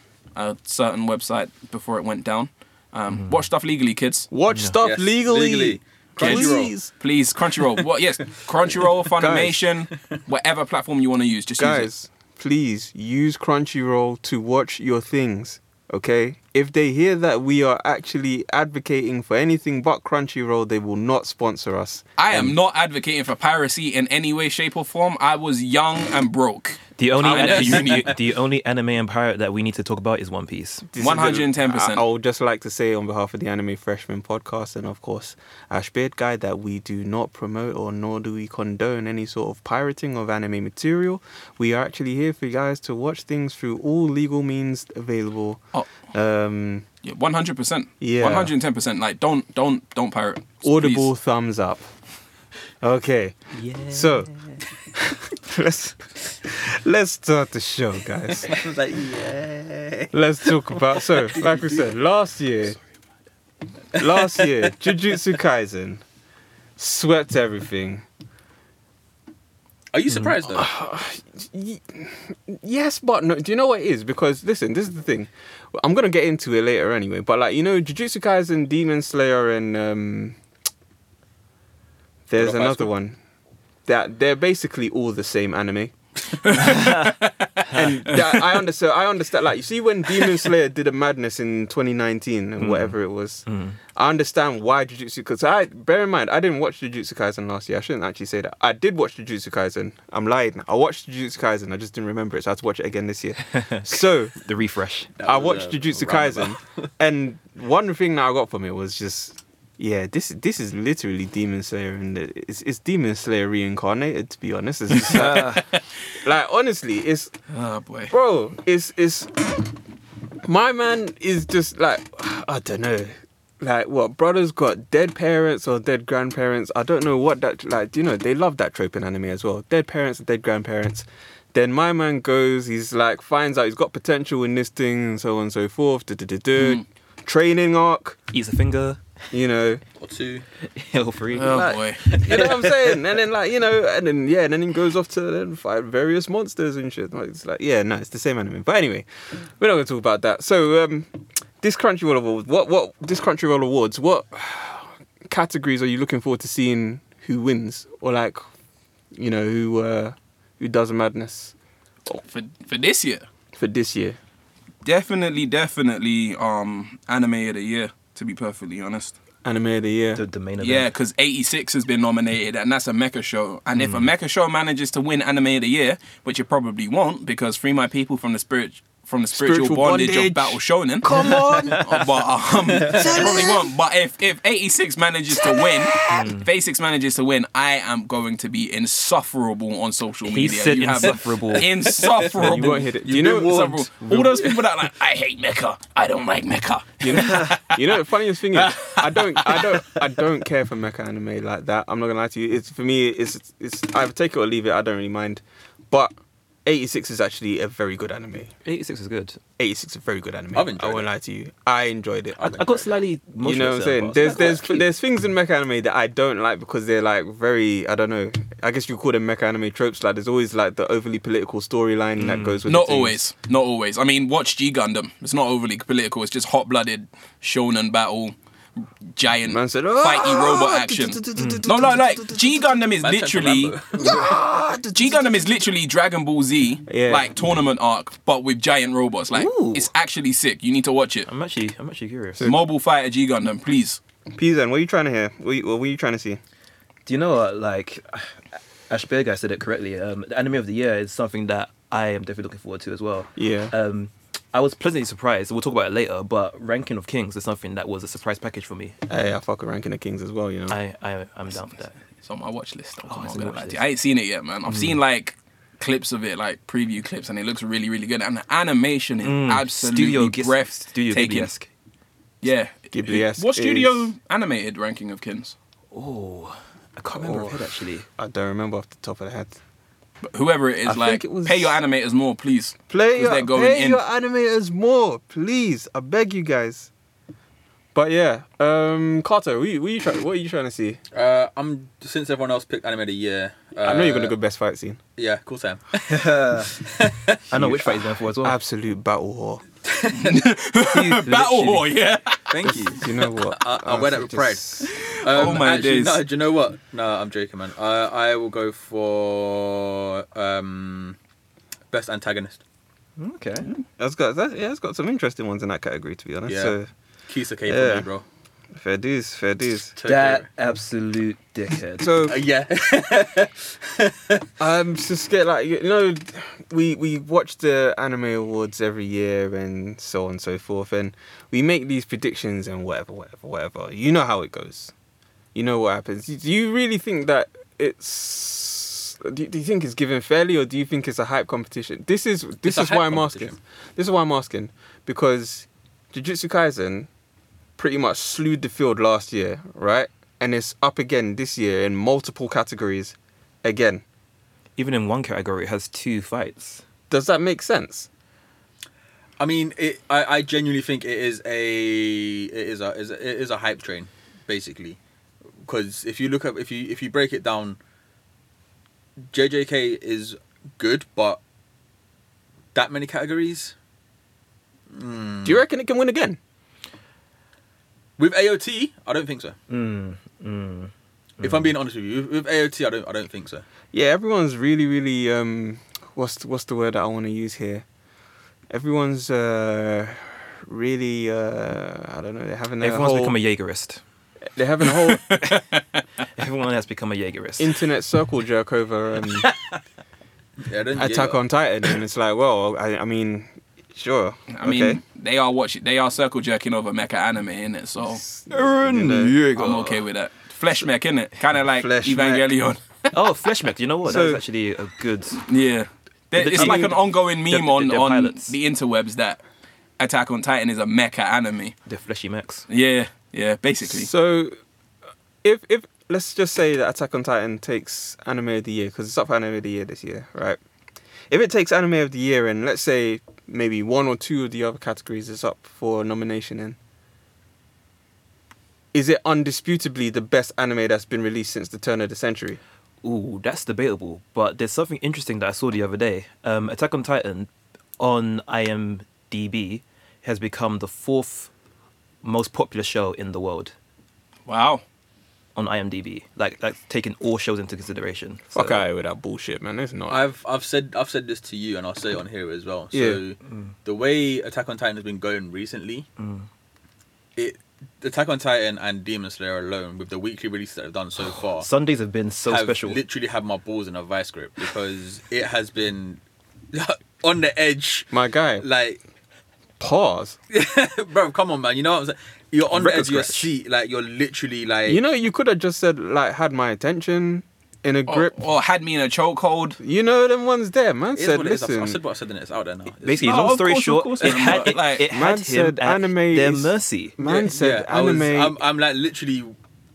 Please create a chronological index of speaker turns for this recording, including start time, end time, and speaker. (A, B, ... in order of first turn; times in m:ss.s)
0:00.4-0:04.3 A
0:04.3-0:06.9 B
0:04.8-0:06.7 C
0:06.2-0:11.9 A
0:09.1-0:09.7 B
0:11.6-0:22.6 B
0:22.2-0:28.2 A
0:27.0-0:30.9 D
0:27.2-0:27.9 B
0:30.9-0:46.8 B
0:31.0-0:32.0 A
0:47.0-0:51.1 A
0:48.0-0:48.5 B
0:50.6-0:51.9 B
0:52.8-0:53.4 B
0:53.5-0:54.3 D
0:53.9-0:54.3 B
0:54.9-0:58.6 B
0:58.5-1:00.1 C
1:00.1-1:02.8 B
1:01.3-1:01.8 C
1:03.9-1:06.0 B
1:06.8-1:08.0 B
1:09.9-1:10.7 C
1:10.5-1:20.4 B
1:22.3-1:23.2 B
1:22.4-1:22.9 C
1:23.8-1:25.9 B
1:26.4-1:28.1 A
1:26.6-1:27.2 D
1:27.7-1:44.3 B
1:32.6-1:33.8 D
1:43.6-1:45.1 D
1:45.2-1:46.8 C
1:45.2-1:55.6 B
1:55.0-1:55.6 D
1:55.2-1:55.6 A
1:56.2-1:57.3 B
1:57.5-1:58.1 A
1:58.1-1:59.3 B
2:00.4-2:18.2 B
2:16.6-2:16.8 A
2:18.3-2:19.0 D
2:19.3-2:19.8 B
2:20.0-2:20.4 C
2:20.6-2:22.9 D
2:21.3-2:22.0 A
2:22.1-2:38.4 B
2:39.1-2:41.5 B
2:42.1-2:43.2 A
2:43.6-2:44.2 B
2:44.8-2:49.2 A
2:49.4-2:50.2 B
2:50.2-2:50.9 D
2:50.6-3:17.8 A
2:53.8-2:54.1 D
2:59.3-3:01.9 B
3:01.1-3:01.9 D
3:02.8-3:03.4 C
3:02.8-3:03.1 D
3:02.9-3:03.7 B
3:05.6-3:06.1 B
3:06.1-3:06.5 D
3:10.2-3:11.7 D
3:11.6-3:14.5 C
3:12.3-3:13.7 B
3:17.0-3:28.5 B
3:17.1-3:17.6 D
3:28.6-3:29.4 D
3:29.6-3:32.8 B
3:30.5-3:31.1 C
3:32.4-3:32.7 C
3:32.4-3:34.8 D
3:33.4-3:43.2 B
3:42.2-3:42.6 D
3:42.6-3:48.4 A
3:49.2-3:53.8 A
3:49.5-3:52.6 B
3:51.4-3:51.6 D
3:53.0-3:54.2 C
3:54.0-3:55.3 B
3:54.9-4:01.3 A
3:56.9-3:57.3 B
3:59.3-3:59.9 D
4:01.2-4:02.5 D
4:02.4-4:04.0 A
4:04.3-4:06.4 B
4:07.0-4:19.0 D
4:13.4-4:13.7 B
4:19.1-4:20.8 B
4:20.7-4:22.0 D
4:22.2-4:31.5 A
4:23.1-4:23.8 D
4:24.7-4:25.0 D
4:29.2-4:31.7 D
4:32.4-4:35.5 A
4:32.9-4:34.1 B
4:35.9-4:38.0 D
4:37.1-4:39.6 B
4:40.2-4:44.0 A
4:40.8-4:41.8 B
4:42.9-4:46.9 B
4:47.9-4:51.0 B
4:51.1-4:54.3 C
4:53.8-4:55.0 B
4:55.2-4:57.4 C
4:56.1-4:56.7 D
4:57.5-4:58.6 D
4:57.5-4:59.6 B
4:59.9-5:00.3 C
5:00.1-5:02.4 A
5:00.8-5:01.9 D
5:02.5-5:11.2 C
5:02.6-5:04.9 B
5:04.9-5:06.2 A
5:11.9-5:12.6 C
5:13.2-5:13.7 D
5:14.0-5:16.9 B
5:16.4-5:18.2 C
5:17.7-5:18.1 B
5:18.7-5:20.0 B
5:20.0-5:20.5 C
5:20.0-5:22.1 D
5:22.0-5:22.4 B
5:22.3-5:24.4 C
5:24.6-5:34.9 B
5:35.5-5:47.1 B
5:42.6-5:43.6 C
5:47.8-5:54.0 B
5:54.8-5:56.8 D
5:57.1-5:58.1 B
5:59.4-6:05.0 C
6:05.6-6:07.8 C
6:09.3-6:11.4 C
6:12.7-6:13.7 C
6:14.9-6:15.6 C
6:15.4-6:16.4 B
6:18.2-6:19.6 C
6:19.7-6:21.7 D
6:21.4-6:23.6 C
6:23.9-6:27.8 B
6:28.7-6:33.4 B
6:32.8-6:34.0 D
6:34.5-6:35.4 B
6:35.1-6:36.0 A
6:36.4-6:37.7 D
6:37.6-6:39.5 B
6:40.6-6:41.4 C
6:41.0-6:45.0 B
6:44.5-6:48.2 A
6:48.1-6:49.9 B
6:48.5-6:49.8 D
6:49.5-6:53.1 A
6:51.7-6:52.5 B
6:53.1-6:55.4 D
6:54.0-6:54.4 B
6:55.4-6:59.4 A
6:56.3-6:58.5 D
6:56.5-6:57.0 B
7:00.0-7:01.7 A
7:01.9-7:02.6 D
7:02.7-7:04.1 A
7:03.8-7:04.5 B
7:05.4-7:10.6 B
7:11.3-7:16.8 B
7:18.9-7:22.6 B
7:23.0-7:31.5 D
7:32.2-7:33.7 D
7:34.4-7:34.8 A
7:35.6-7:38.8 D
7:38.5-7:40.2 B
7:40.1-7:46.1 C
7:42.9-7:43.2 B
7:46.2-7:46.4 D
7:47.4-7:51.7 C
7:51.2-7:53.0 D
7:52.4-7:56.2 C
7:56.7-7:59.0 C
7:58.1-7:58.6 B
7:59.8-8:00.4 B
8:00.5-8:05.0 C
8:02.7-8:03.5 D
8:04.9-8:08.3 B
8:08.1-8:09.8 A
8:09.8-8:12.0 B
8:11.1-8:13.5 C
8:13.0-8:17.2 D
8:13.1-8:15.1 A
8:14.2-8:14.8 C
8:15.1-8:18.6 B
8:17.2-8:19.5 C